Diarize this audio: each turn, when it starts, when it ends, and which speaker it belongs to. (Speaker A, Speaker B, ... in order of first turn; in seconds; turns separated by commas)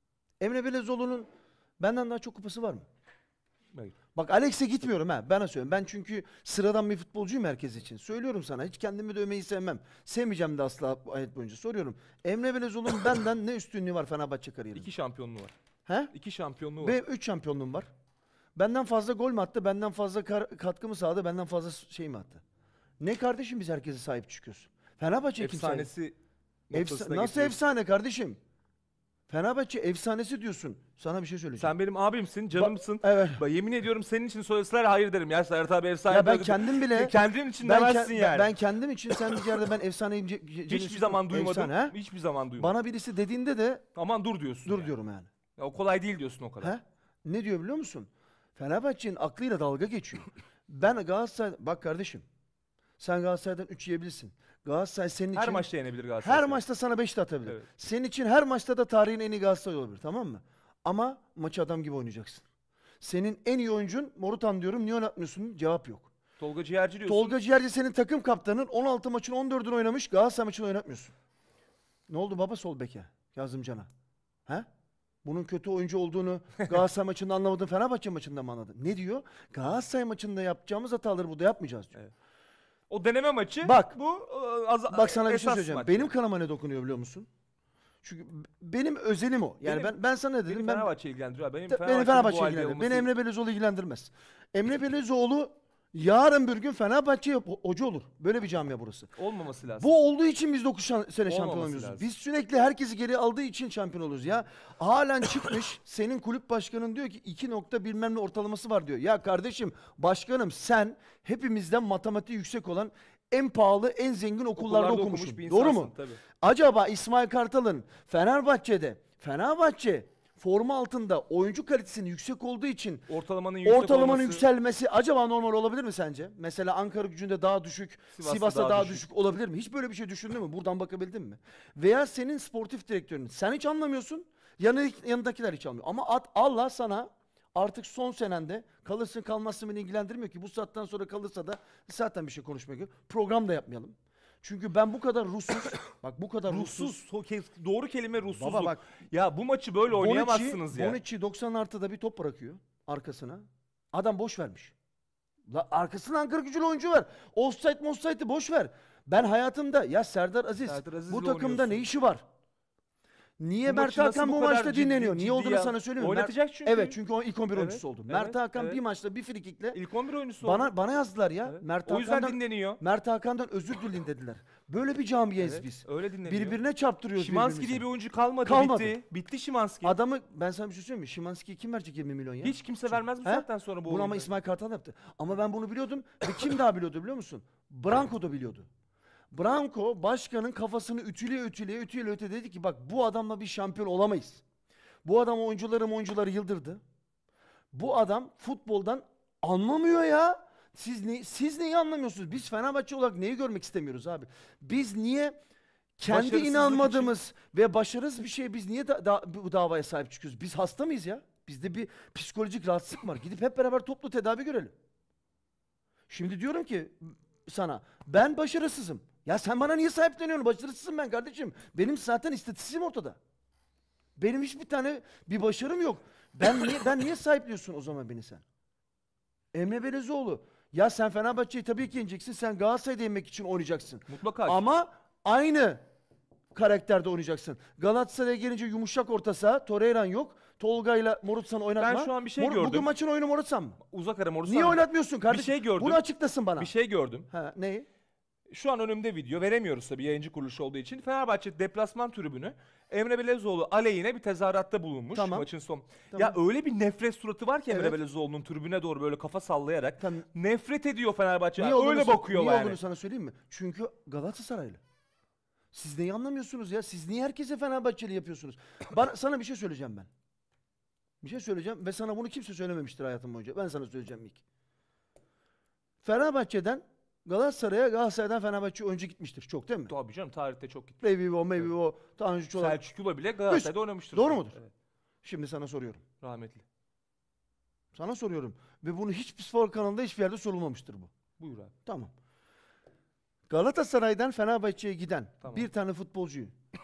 Speaker A: 0.4-1.3, Speaker A: 1.8-2.9, Speaker A: 4.1-14.9, Speaker B: 14.7-15.5, Speaker A: 15.8-16.1, Speaker B: 16.1-17.0, Speaker A: 16.8-17.9, Speaker A: 18.6-22.4, Speaker A: 23.0-25.9, Speaker B: 25.4-26.1, Speaker B: 26.7-27.6, Speaker A: 26.7-28.4, Speaker A: 29.3-31.7, Speaker B: 31.6-38.5, Speaker A: 32.5-33.4, Speaker A: 36.1-42.0, Speaker B: 39.1-39.4, Speaker B: 40.7-42.7, Speaker A: 42.6-43.8, Speaker B: 43.9-44.9, Speaker A: 44.6-45.3, Speaker B: 45.6-46.7, Speaker A: 46.6-52.2, Speaker A: 53.0-55.6, Speaker B: 55.3-56.6, Speaker A: 56.2-62.4, Speaker A: 63.0-66.1, Speaker B: 66.4-67.3, Speaker A: 67.0-71.1, Speaker A: 72.1-73.9, Speaker A: 75.2-82.0, Speaker B: 82.9-86.1, Speaker A: 83.6-84.0, Speaker A: 84.9-87.3, Speaker A: 88.0-90.9, Speaker B: 89.6-89.9, Speaker B: 90.5-93.1, Speaker A: 91.7-99.1, Speaker B: 99.2-99.9, Speaker A: 99.8-123.1, Speaker B: 101.3-102.1, Speaker B: 114.5-116.2, Speaker B: 123.1-124.4, Speaker A: 123.6-147.0, Speaker B: 128.1-129.0, Speaker B: 146.5-151.0, Speaker A: 148.3-148.8, Speaker A: 149.9-154.7, Speaker A: 155.5-162.2, Speaker B: 160.6-161.8, Speaker A: 163.4-169.8, Speaker B: 163.6-167.0, Speaker B: 167.5-168.8, Speaker B: 169.7-170.7, Speaker A: 170.4-177.8, Speaker B: 171.4-172.8, Speaker B: 175.4-176.6, Speaker B: 177.2-179.9, Speaker A: 178.4-179.0, Speaker A: 179.8-188.7, Speaker B: 182.4-184.3, Speaker A: 189.3-194.4, Speaker A: 195.0-196.8, Speaker A: 197.7-205.3, Speaker A: 206.0-214.7, Speaker B: 206.1-207.1, Speaker A: 216.1-223.2, Speaker A: 224.2-228.4, Speaker A: 229.5-235.8, Speaker B: 234.1-234.6, Speaker A: 236.5-243.8, Speaker B: 241.8-242.9, Speaker B: 243.9-246.0, Speaker A: 244.4-246.7, Speaker B: 246.6-247.3, Speaker A: 247.3-247.8, Speaker B: 248.5-262.8, Speaker A: 255.1-255.5, Speaker A: 257.7-257.9, Speaker A: 260.0-260.2, Speaker A: 261.6-264.8, Speaker A: 265.7-270.1, Speaker A: 271.2-274.4, Speaker A: 276.0-279.9, Speaker B: 279.9-281.0, Speaker A: 281.0-282.8, Speaker B: 282.6-284.7, Speaker A: 283.5-284.6, Speaker A: 285.2-286.0, Speaker B: 286.2-286.6, Speaker A: 287.9-291.1, Speaker B: 291.4-291.7, Speaker A: 291.9-292.1, Speaker A: 293.5-296.5, Speaker B: 295.4-295.7